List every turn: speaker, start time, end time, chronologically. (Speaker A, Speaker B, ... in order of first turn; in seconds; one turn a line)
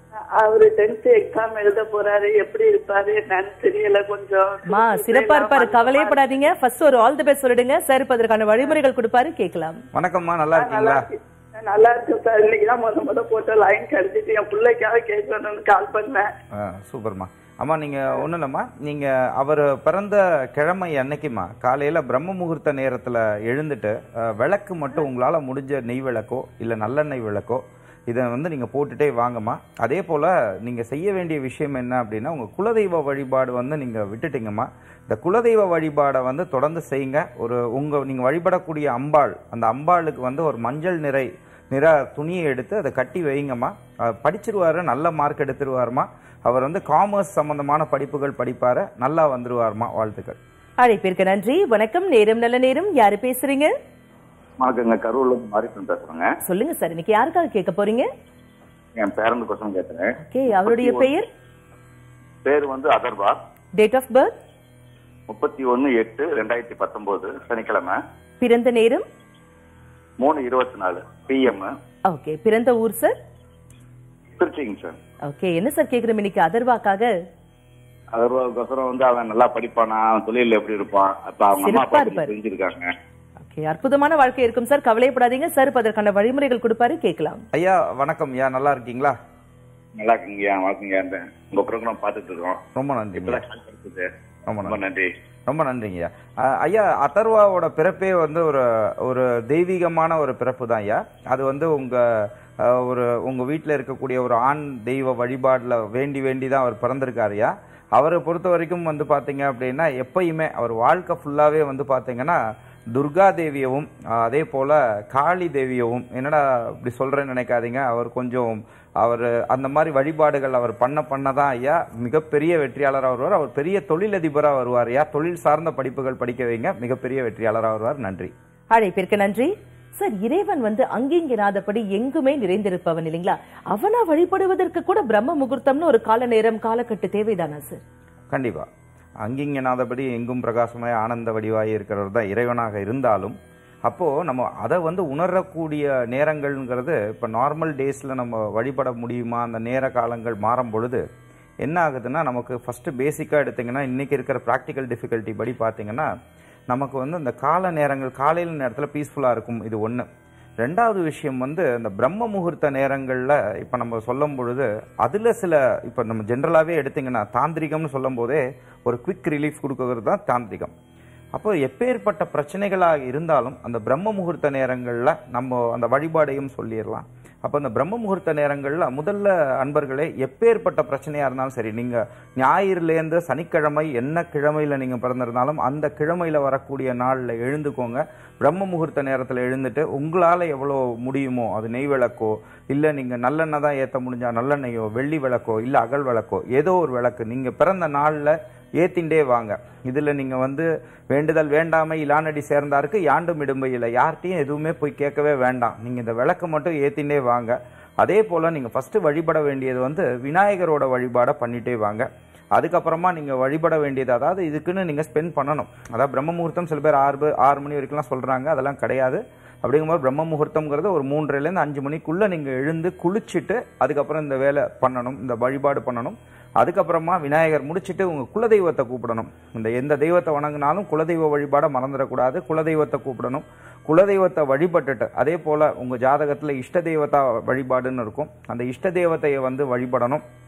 Speaker A: 0.4-6.2
Speaker B: 4.7-9.8
Speaker C: 9.9-11.0
Speaker A: 10.6-16.3
Speaker C: 16.5-50.4
Speaker B: 50.8-53.7
Speaker D: 54.6-56.3
Speaker B: 56.4-58.1
Speaker D: 58.9-60.1
Speaker B: 60.2-61.2
Speaker D: 60.6-61.1
Speaker D: 62.4-63.4
Speaker B: 63.8-64.3
Speaker D: 65.3-68.0
Speaker B: 68.4-69.0
Speaker D: 70.2-71.7
Speaker B: 72.1-73.1
Speaker D: 74.4-75.0
Speaker B: 75.2-77.1
Speaker D: 78.1-82.9
Speaker B: 81.6-82.3
Speaker B: 83.4-87.4
Speaker C: 87.5-89.1
Speaker D: 90.0-92.6
Speaker C: 92.7-93.4
Speaker D: 93.2-94.1
Speaker C: 94.5-94.8
Speaker D: 94.6-95.1
Speaker C: 95.5-112.4
Speaker C: 112.9-128.3
Speaker B: 128.7-137.8
Speaker C: 138.3-138.7
Speaker C: 139.2-151.0
Speaker C: 151.6-156.1
Speaker C: 156.7-160.1
Speaker C: 160.6-170.7
Speaker C: 171.3-240.2